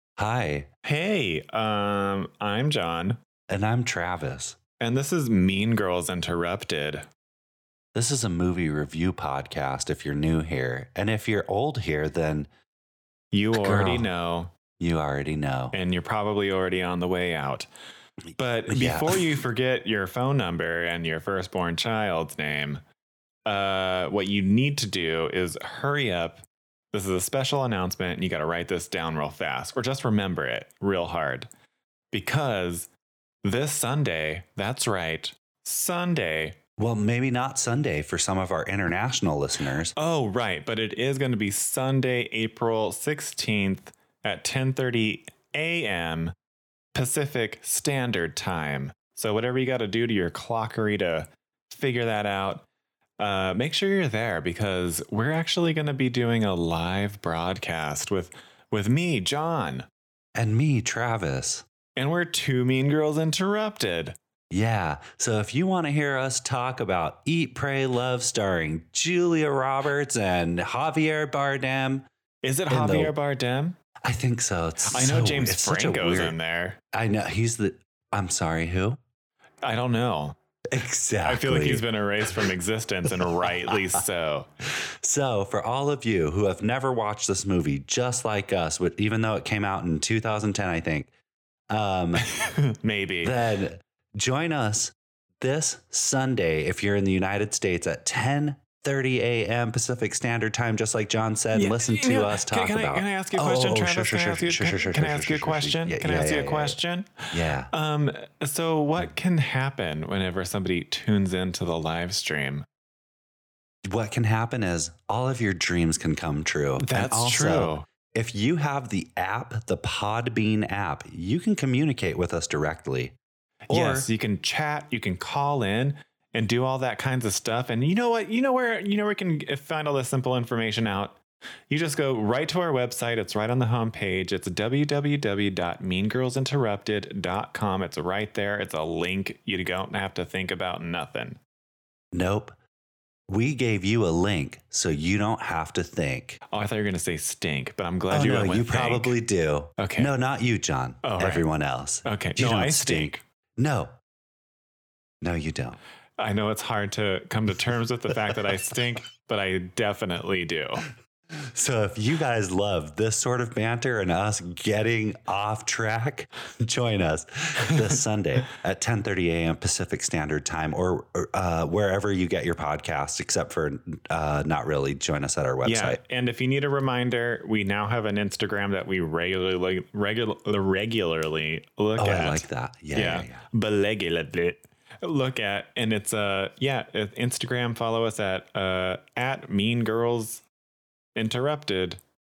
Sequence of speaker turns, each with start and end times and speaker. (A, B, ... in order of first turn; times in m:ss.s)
0:00.2-0:00.7 A
0:00.8-0:03.2 B
0:03.5-0:04.6 A
0:04.8-0:07.0 B
0:07.9-0:12.5 A
0:13.3-0:14.5 B
0:13.5-0:14.1 A
0:14.8-0:15.8 A
0:15.7-0:17.7 B
0:18.4-0:22.8 B
0:18.7-0:19.2 A
0:23.5-0:31.5 B
0:32.1-0:32.9 B
0:33.4-0:36.6 B
0:36.8-0:39.9 A
0:40.0-0:46.3 B
0:46.9-0:52.6 B
0:53.2-0:59.9 B
1:00.4-1:01.6 A
1:02.0-1:04.2 B
1:04.5-1:12.1 A
1:12.4-1:13.8 B
1:12.7-1:13.2 A
1:14.0-1:16.4 A
1:14.9-1:16.8 B
1:16.9-1:19.0 A
1:19.6-1:20.4 B
1:20.7-1:21.9 A
1:21.2-1:24.5 B
1:23.2-1:24.0 A
1:24.9-1:31.1 A
1:31.7-1:32.3 A
1:32.4-1:33.4 B
1:33.2-1:46.8 A
1:41.5-1:52.6 B
1:47.3-1:47.7 A
1:53.8-2:03.2 A
1:56.8-1:57.9 B
2:03.7-2:11.2 B
2:03.7-2:04.1 A
2:11.7-2:21.4 B
2:22.1-2:22.6 A
2:23.3-2:26.4 A
2:26.5-2:29.2 B
2:28.1-2:33.9 A
2:29.8-2:30.1 B
2:31.0-2:31.4 B
2:32.1-2:33.2 B
2:35.2-2:35.8 A
2:36.2-2:40.8 B
2:41.4-2:56.0 A
2:55.6-3:10.4 B
3:02.0-3:03.4 A
3:11.2-3:12.0 B